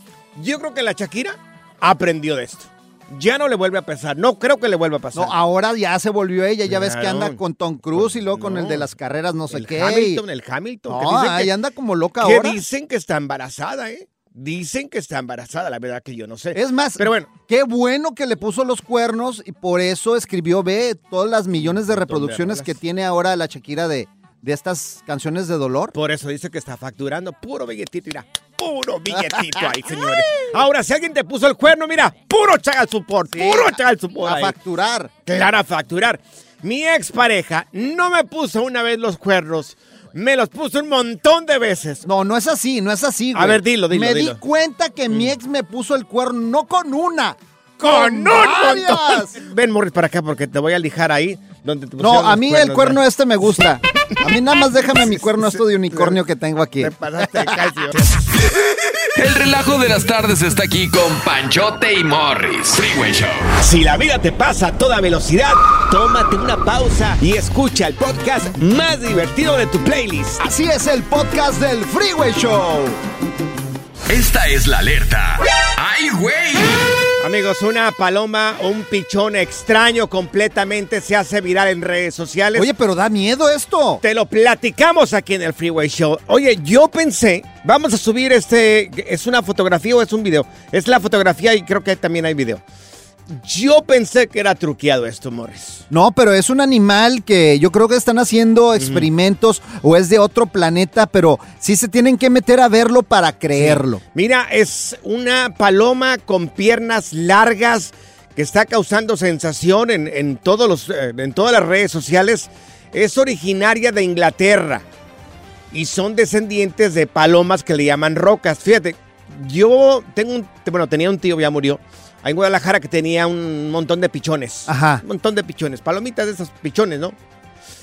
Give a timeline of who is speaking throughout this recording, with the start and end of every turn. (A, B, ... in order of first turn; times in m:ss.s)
0:00.4-0:05.4 A
0:05.2-0:10.2 B
0:06.7-0:07.4 A
0:08.0-0:08.9 A
0:09.5-0:11.5 A
0:10.9-0:12.6 B
0:12.2-0:17.3 A
0:16.5-0:26.0 B
0:21.6-0:22.7 A
0:26.0-0:34.6 A
0:29.9-0:30.2 B
0:33.4-0:35.1 B
0:35.3-0:42.0 A
0:42.0-0:49.3 B
0:43.3-0:44.4 A
0:47.8-0:53.0 A
0:52.0-0:57.5 B
0:55.0-0:56.2 A
0:56.8-0:58.0 A
0:59.2-1:03.5 C
1:03.6-1:10.4 A
1:10.4-1:13.0 B
1:14.1-1:16.8 C
1:17.2-1:22.7 A
1:22.6-1:24.0 B
1:24.0-1:32.6 A
1:33.3-1:35.8 A
1:35.9-1:44.0 B
1:38.8-1:39.1 A
1:43.6-1:54.8 A
1:55.7-2:07.2 A
2:04.7-2:05.0 B